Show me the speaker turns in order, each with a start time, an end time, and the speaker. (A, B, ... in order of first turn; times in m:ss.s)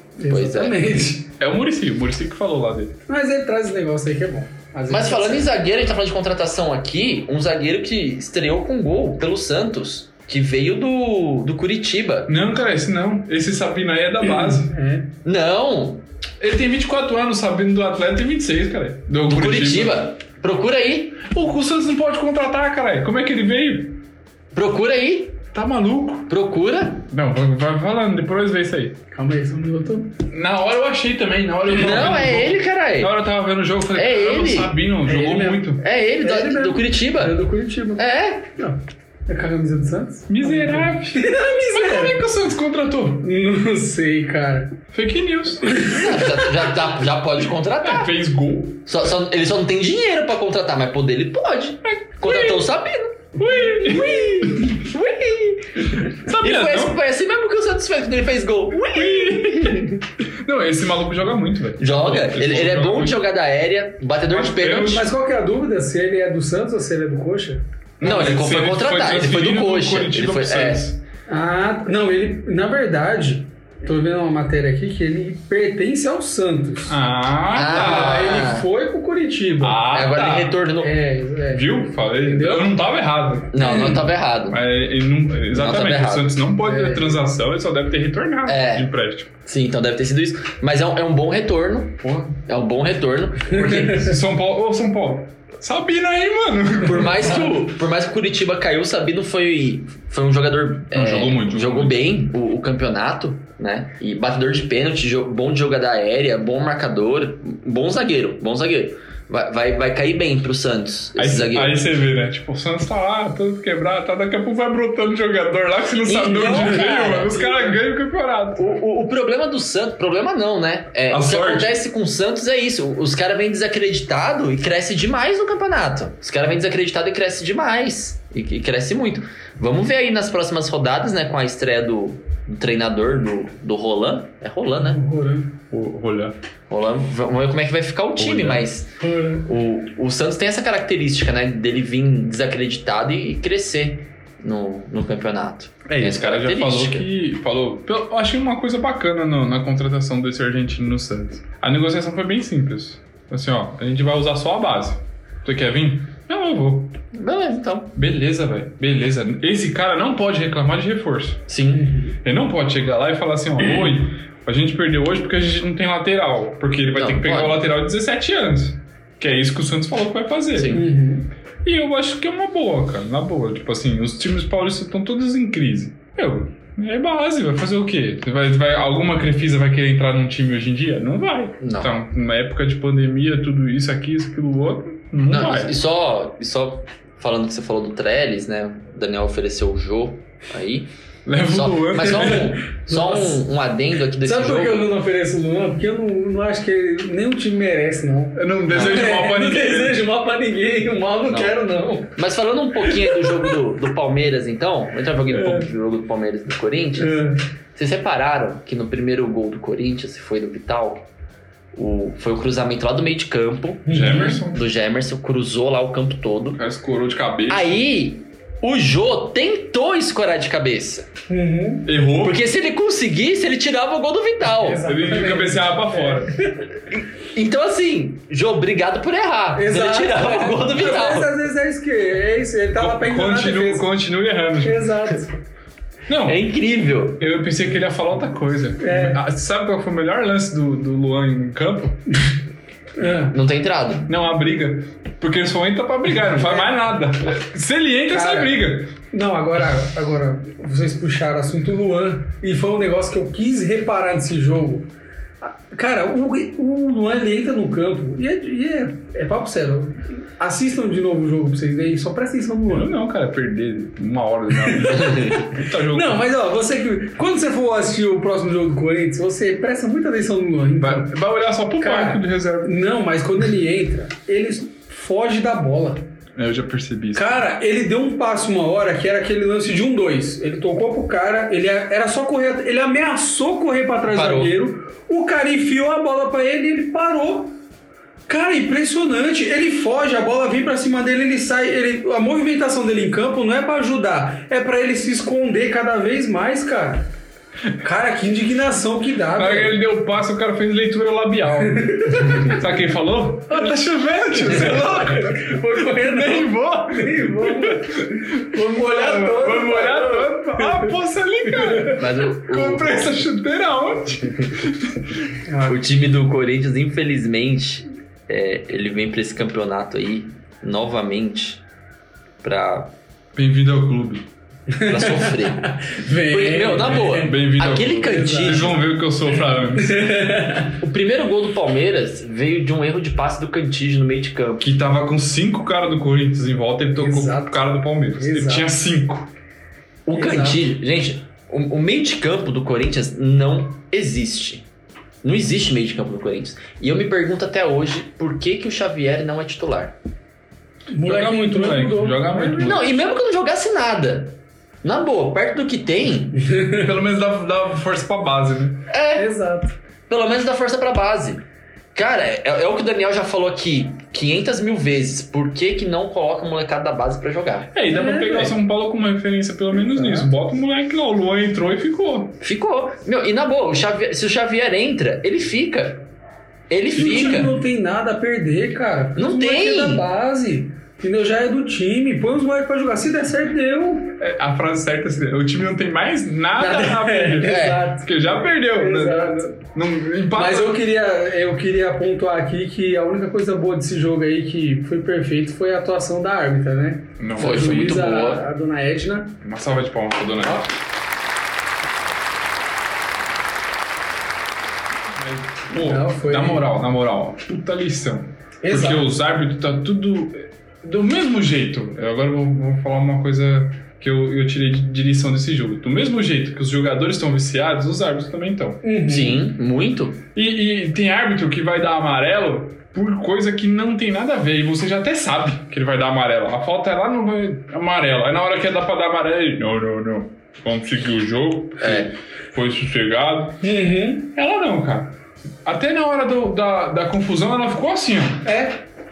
0:00.2-0:01.3 A
0:00.3-0:00.8 B
0:01.4-0:03.0 C
0:03.1-0:05.5 A
0:04.9-0:12.3 B
0:12.3-0:14.7 C
0:14.2-0:15.1 A
0:15.2-0:16.0 B
0:16.4-0:20.0 C
0:19.3-0:21.2 B
0:21.2-0:24.0 C
0:24.5-0:25.4 B
0:25.5-0:26.3 C
0:26.3-0:27.0 B
0:27.1-0:29.0 C
0:29.1-0:30.1 A
0:30.3-0:35.8 C
0:31.6-0:33.1 B
0:33.9-0:34.8 B
0:35.0-0:38.0 A
0:35.8-0:37.4 B
0:38.0-0:38.4 B
0:38.6-0:42.2 A
0:40.3-0:43.3 C
0:43.2-0:44.8 A
0:44.9-0:45.9 C
0:45.6-0:46.5 A
0:45.9-0:48.1 B
0:47.8-0:48.8 C
0:48.8-0:59.9 B
0:51.8-0:52.7 C
0:53.4-0:54.8 C
0:56.2-0:57.0 C
0:58.9-1:03.2 C
1:01.8-1:05.0 B
1:04.3-1:05.1 C
1:04.9-1:07.6 A
1:08.0-1:11.0 C
1:08.0-1:10.8 B
1:11.3-1:17.0 A
1:16.9-1:18.4 C
1:17.5-1:18.7 B
1:17.7-1:19.8 A
1:19.6-1:20.6 C
1:19.9-1:20.9 B
1:20.8-1:22.8 A
1:21.5-1:23.6 C
1:23.5-1:24.6 B
1:23.6-1:24.0 A
1:24.5-1:29.3 C
1:25.5-1:26.4 B
1:26.6-1:27.2 A
1:28.4-1:28.9 B
1:29.4-1:34.1 B
1:32.0-1:32.3 C
1:33.5-1:34.2 A
1:33.9-1:37.3 C
1:36.8-1:51.8 B
1:40.9-1:42.3 C
1:51.2-1:58.8 C
1:56.0-1:57.8 B
1:58.6-2:15.0 B
2:01.1-2:01.8 C
2:14.8-2:15.5 A
2:15.7-2:16.4 C
2:16.7-2:27.1 B
2:18.2-2:18.6 C
2:19.0-2:19.5 A
2:25.9-2:36.9 C
2:37.1-2:37.9 B
2:37.9-2:41.4 C
2:41.5-2:42.0 B
2:41.7-2:42.1 A
2:42.2-2:50.8 C
2:46.9-2:47.6 B
2:50.6-2:50.8 B
2:50.7-2:51.3 A
2:51.6-3:05.7 C
3:01.6-3:01.9 B
3:05.3-3:10.9 B
3:11.2-3:12.5 C
3:11.5-3:14.8 B
3:12.1-3:13.4 A
3:14.2-3:22.2 A
3:18.3-3:20.0 C
3:18.7-3:19.1 B
3:21.2-3:21.6 B
3:22.2-3:27.2 B
3:22.8-3:23.6 A
3:25.3-3:25.7 A
3:27.0-3:27.4 A
3:27.7-3:31.0 B
3:31.7-3:36.6 B
3:33.8-3:34.4 A
3:33.9-3:34.6 C
3:36.5-3:37.8 C
3:37.5-3:41.1 B
3:41.3-3:41.9 A
3:41.8-3:42.4 C
3:42.2-3:44.8 B
3:44.4-3:46.6 A
3:44.8-3:46.4 C
3:46.9-3:51.3 B
3:49.5-3:53.9 A
3:52.7-3:54.9 C
3:54.6-3:55.4 A
3:56.1-3:56.4 C
3:56.2-3:57.2 B
3:57.2-4:02.0 C
3:58.8-3:59.2 A
4:03.0-4:03.4 A
4:03.3-4:04.1 B
4:04.1-4:08.9 C
4:06.2-4:06.7 A
4:08.1-4:08.6 A
4:09.1-4:14.9 A
4:15.4-4:22.9 A
4:22.7-4:26.3 C
4:24.5-4:31.1 A
4:25.0-4:25.4 B
4:30.8-4:32.8 C
4:31.8-4:36.0 A
4:36.4-4:37.4 C
4:37.1-4:47.6 A
4:44.1-4:44.5 B
4:48.3-4:57.0 A
4:57.8-4:59.7 A
4:59.3-5:15.2 C
5:01.6-5:02.6 A
5:04.2-5:10.9 A
5:11.4-5:12.0 A
5:11.9-5:13.2 B
5:15.5-5:15.9 A
5:15.7-5:21.6 B
5:22.4-5:22.9 B
5:23.3-5:24.3 C
5:24.7-5:27.3 A
5:24.8-5:28.8 B
5:27.0-5:30.1 C
5:28.0-5:28.8 A
5:29.8-5:30.8 A
5:30.8-5:34.7 B
5:34.6-5:39.3 C
5:37.0-5:37.6 A
5:38.1-5:38.8 A
5:40.0-5:44.6 B
5:40.1-5:40.6 A
5:45.2-5:49.9 B
5:50.9-5:52.8 A
5:51.0-5:53.0 C
5:52.6-5:56.4 B
5:56.4-5:56.9 A
5:56.7-5:58.8 C
5:58.9-5:59.3 B
5:59.1-5:59.7 A
6:00.1-6:01.4 B
6:01.9-6:07.7 B
6:07.7-6:12.4 C
6:07.9-6:08.6 A
6:09.7-6:10.3 A
6:12.4-6:16.0 B
6:16.7-6:17.5 B
6:16.9-6:17.5 C
6:17.0-6:24.1 A
6:19.2-6:20.0 B
6:24.2-6:30.8 C
6:26.6-6:28.1 A
6:27.4-6:27.8 B
6:28.7-6:29.5 A
6:30.3-6:39.4 A
6:37.2-6:38.0 C
6:37.4-6:38.4 B
6:39.4-6:40.7 C
6:45.1-6:58.8 C
6:45.7-6:46.7 A
6:48.6-6:49.1 A
6:58.8-6:59.4 A
6:59.1-7:00.2 B
7:00.3-7:13.6 C
7:11.8-7:12.1 B
7:13.6-7:14.3 A
7:14.3-7:15.1 C
7:15.6-7:18.4 C
7:18.4-7:18.8 A